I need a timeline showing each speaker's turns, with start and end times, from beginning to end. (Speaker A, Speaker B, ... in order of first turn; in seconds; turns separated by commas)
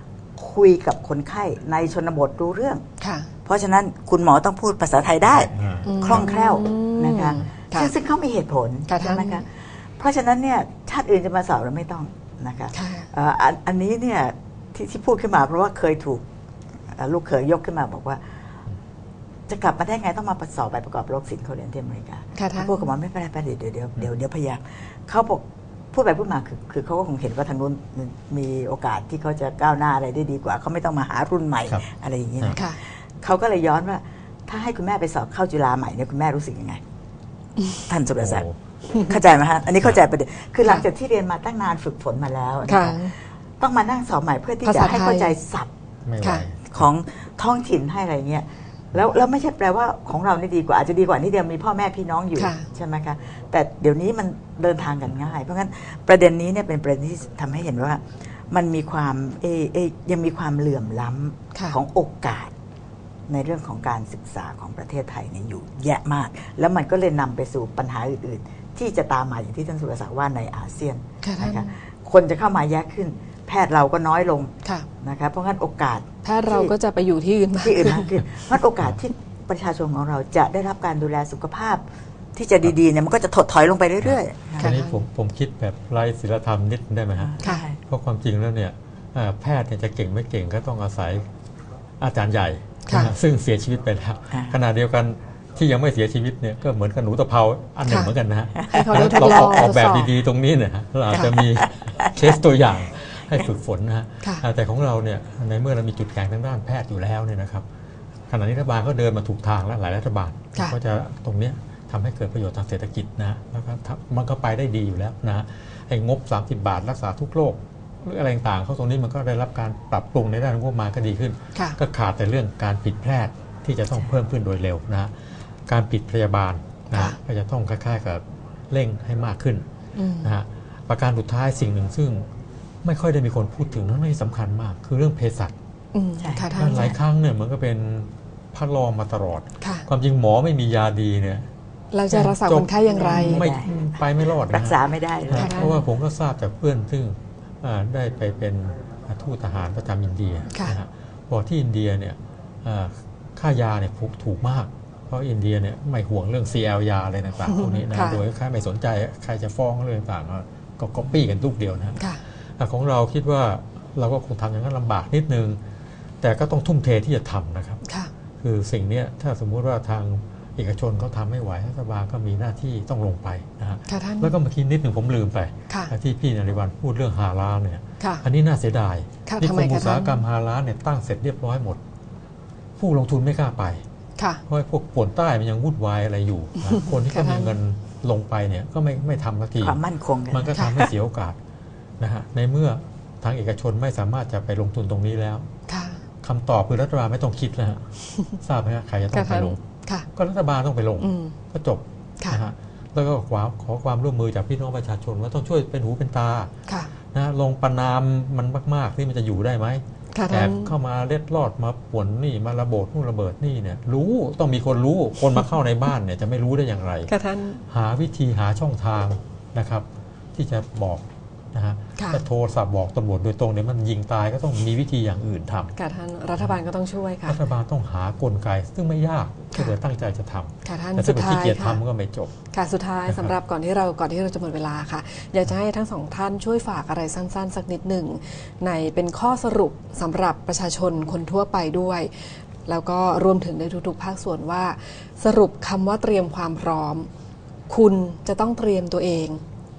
Speaker A: 0.4-2.8, Speaker B: 3.0-3.3, Speaker A: 3.5-16.3, Speaker C: 5.3-6.3, Speaker B: 5.8-7.9, Speaker B: 8.9-9.4, Speaker B: 12.7-13.1, Speaker A: 16.9-18.3, Speaker A: 19.5-36.8, Speaker B: 22.3-22.8, Speaker A: 37.9-38.5, Speaker C: 38.2-38.6, Speaker A: 39.0-45.7, Speaker B: 42.7-43.1, Speaker B: 44.6-45.3, Speaker C: 46.1-46.9, Speaker B: 46.2-46.5, Speaker A: 46.7-62.5, Speaker B: 52.4-52.6, Speaker A: 63.3-76.8, Speaker B: 71.2-71.7, Speaker B: 76.2-78.2, Speaker A: 77.6-81.8, Speaker A: 82.3-84.7, Speaker B: 84.6-85.0, Speaker C: 84.6-91.3, Speaker A: 87.2-87.8, Speaker C: 92.0-107.7, Speaker B: 92.9-93.1, Speaker A: 94.3-94.6, Speaker B: 97.9-98.2, Speaker A: 98.6-99.0, Speaker B: 98.7-100.1, Speaker A: 101.1-102.4, Speaker C: 108.3-125.1, Speaker C: 125.7-129.7, Speaker B: 126.9-127.2, Speaker B: 130.0-130.3, Speaker C: 130.2-132.3, Speaker C: 132.8-135.5, Speaker B: 135.9-137.0, Speaker A: 136.2-136.8, Speaker C: 136.5-141.5, Speaker B: 139.6-139.9, Speaker B: 141.9-143.5, Speaker C: 142.1-144.8, Speaker A: 142.9-145.7, Speaker C: 145.3-162.0, Speaker B: 145.3-145.8, Speaker B: 150.5-150.8, Speaker B: 157.5-158.2, Speaker C: 162.6-165.6, Speaker C: 166.2-167.8, Speaker B: 167.8-168.1, Speaker C: 168.4-181.8, Speaker B: 173.9-174.3, Speaker B: 179.3-180.2, Speaker C: 182.8-183.8, Speaker B: 184.2-184.4, Speaker C: 184.5-189.8, Speaker B: 186.6-187.6, Speaker A: 189.6-190.9, Speaker C: 190.3-191.4, Speaker C: 192.0-195.5, Speaker B: 195.7-196.0, Speaker C: 196.2-197.8, Speaker C: 198.4-199.6, Speaker B: 199.1-200.1, Speaker C: 200.2-206.5, Speaker B: 201.0-201.3, Speaker C: 207.1-217.1, Speaker B: 210.1-210.8, Speaker B: 217.1-217.6, Speaker C: 217.7-225.7, Speaker B: 222.0-222.2, Speaker B: 225.8-227.4, Speaker C: 227.2-232.3, Speaker B: 230.7-231.8, Speaker B: 232.5-247.1, Speaker C: 233.1-233.3, Speaker B: 247.7-249.4